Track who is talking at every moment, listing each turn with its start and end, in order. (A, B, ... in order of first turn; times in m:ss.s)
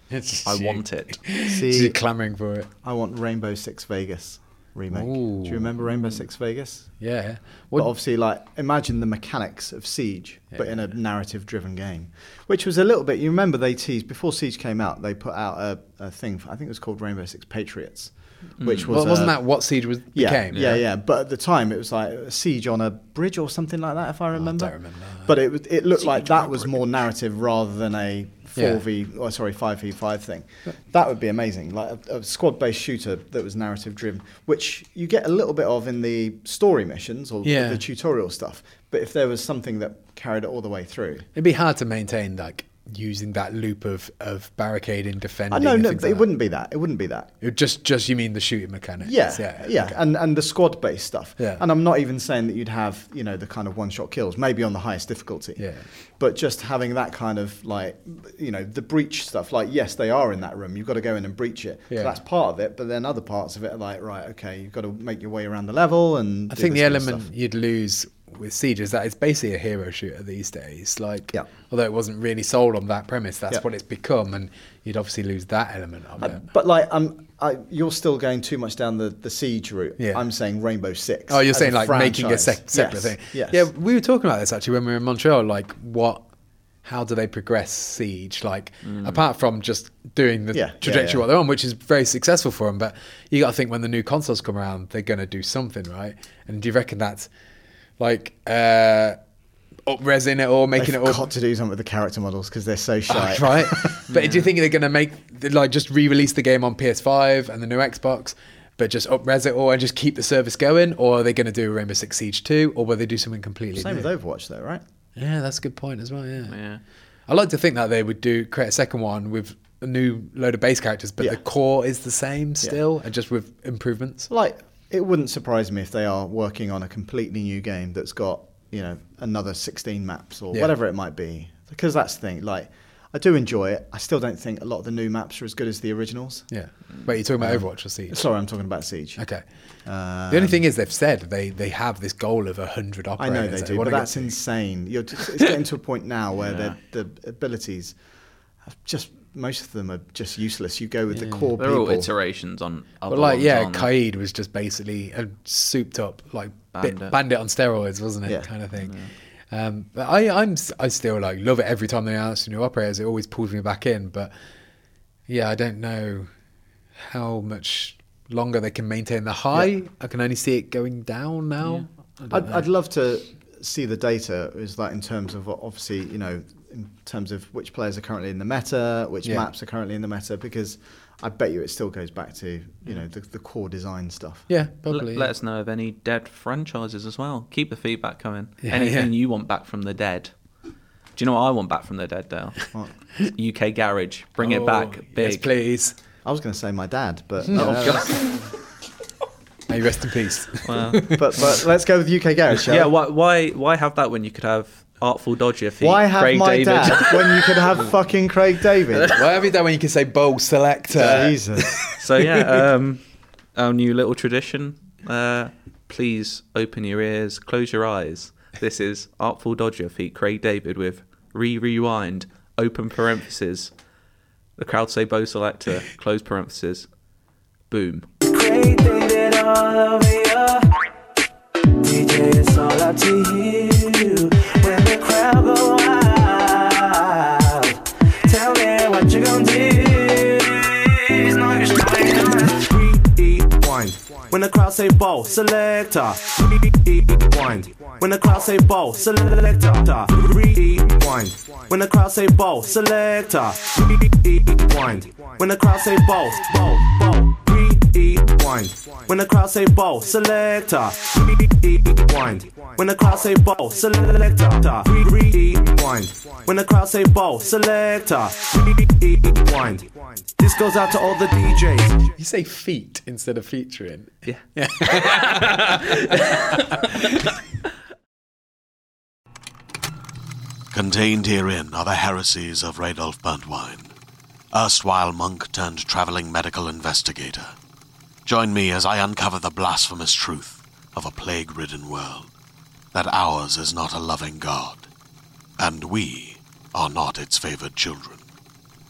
0:00.1-0:02.7 A
0:00.4-0:01.2 B
0:01.4-0:02.0 C
0:02.8-0:06.9 C
0:04.9-0:05.8 A
0:07.0-0:07.9 A
0:07.7-0:19.5 C
0:10.5-0:10.8 A
0:18.6-0:19.0 B
0:18.9-0:20.8 A
0:20.1-0:41.3 C
0:24.4-0:25.3 A
0:26.0-0:26.8 B
0:28.6-0:28.8 A
0:37.4-0:37.8 A
0:41.3-0:46.3 A
0:45.5-0:47.3 C
0:47.4-0:50.0 A
0:49.0-1:07.3 C
0:55.6-0:55.9 A
1:01.9-1:02.2 A
1:06.5-1:16.4 A
1:16.2-1:23.7 C
1:21.3-1:26.2 A
1:26.8-1:37.3 A
1:28.8-1:29.2 B
1:30.5-1:31.2 C
1:38.0-1:39.2 A
1:39.9-1:41.3 A
1:40.8-1:44.0 C
1:43.1-1:54.1 A
1:44.1-1:44.5 B
1:53.7-1:54.8 C
1:55.2-1:56.6 A
1:56.5-1:56.8 B
1:57.3-2:04.3 A
2:04.3-2:16.5 C
2:16.5-2:18.2 A
2:17.4-2:19.2 C
2:19.2-2:19.4 A
2:19.8-2:20.6 C
2:20.3-2:24.4 A
2:23.2-2:28.0 C
2:26.4-2:26.8 B
2:28.6-2:32.1 C
2:31.1-2:31.5 A
2:31.6-2:33.9 B
2:33.1-2:38.9 A
2:36.7-2:37.2 B
2:38.2-2:38.5 C
2:38.7-2:39.1 B
2:39.5-2:44.3 A
2:45.3-2:46.3 A
2:47.0-2:52.6 A
2:52.3-3:04.5 C
3:04.5-3:05.3 A
3:04.9-3:10.3 B
3:08.6-3:09.1 A
3:11.2-3:15.5 B
3:14.4-3:15.9 A
3:16.2-3:18.4 C
3:17.5-3:18.4 A
3:19.7-3:21.3 A
3:20.6-3:21.2 B
3:21.1-3:22.9 C
3:22.6-3:27.7 B
3:25.8-3:29.1 C
3:28.9-3:29.2 B
3:29.1-3:32.0 A
3:30.9-3:31.9 C
3:32.0-3:33.0 B
3:33.5-3:43.7 B
3:44.6-3:46.9 B
3:47.7-3:48.1 B
3:48.2-3:50.7 D
3:51.8-4:32.1 D
4:32.2-4:37.3 A
4:34.2-4:36.8 B
4:40.7-4:43.9 E
4:44.5-4:47.5 E
4:48.2-4:52.3 E
4:52.9-4:54.9 E
4:55.6-4:58.2 E